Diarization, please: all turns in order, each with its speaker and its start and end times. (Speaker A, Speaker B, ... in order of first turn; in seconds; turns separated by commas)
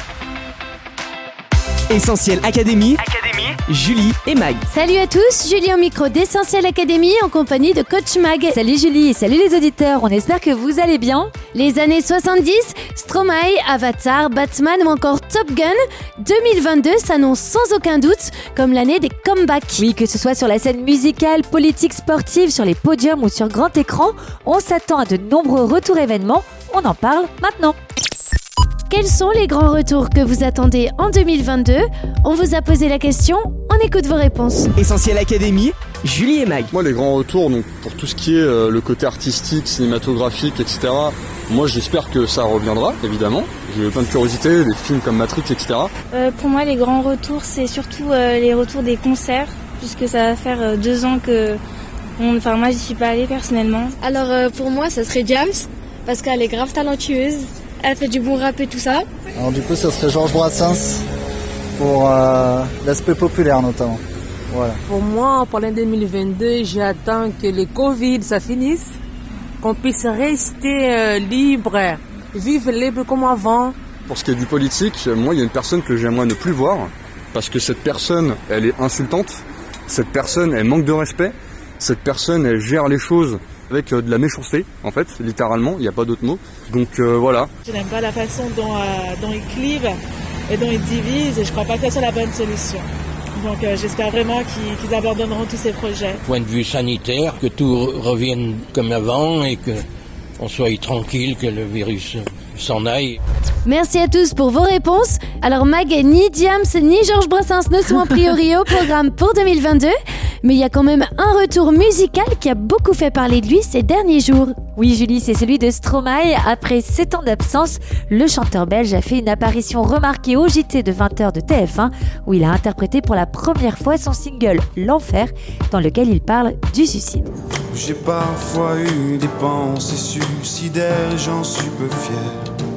Speaker A: 1.9-4.6, Speaker B: 4.7-8.6, Speaker C: 8.5-11.3, Speaker B: 11.5-19.8, Speaker C: 19.8-27.8, Speaker B: 28.9-34.7, Speaker A: 34.8-36.7, Speaker D: 36.7-45.9, Speaker E: 45.6-51.6, Speaker E: 52.2-53.9, Speaker F: 54.0-59.1, Speaker G: 59.4-61.0, Speaker G: 61.8-64.8, Speaker H: 64.9-69.0, Speaker H: 69.6-73.8, Speaker D: 74.1-87.5, Speaker E: 86.5-87.5, Speaker I: 87.7-90.0, Speaker I: 90.5-92.8, Speaker I: 93.4-96.2, Speaker J: 96.3-99.8, Speaker J: 100.4-103.2, Speaker B: 103.7-114.5, Speaker C: 114.8-127.3, Speaker K: 127.7-132.3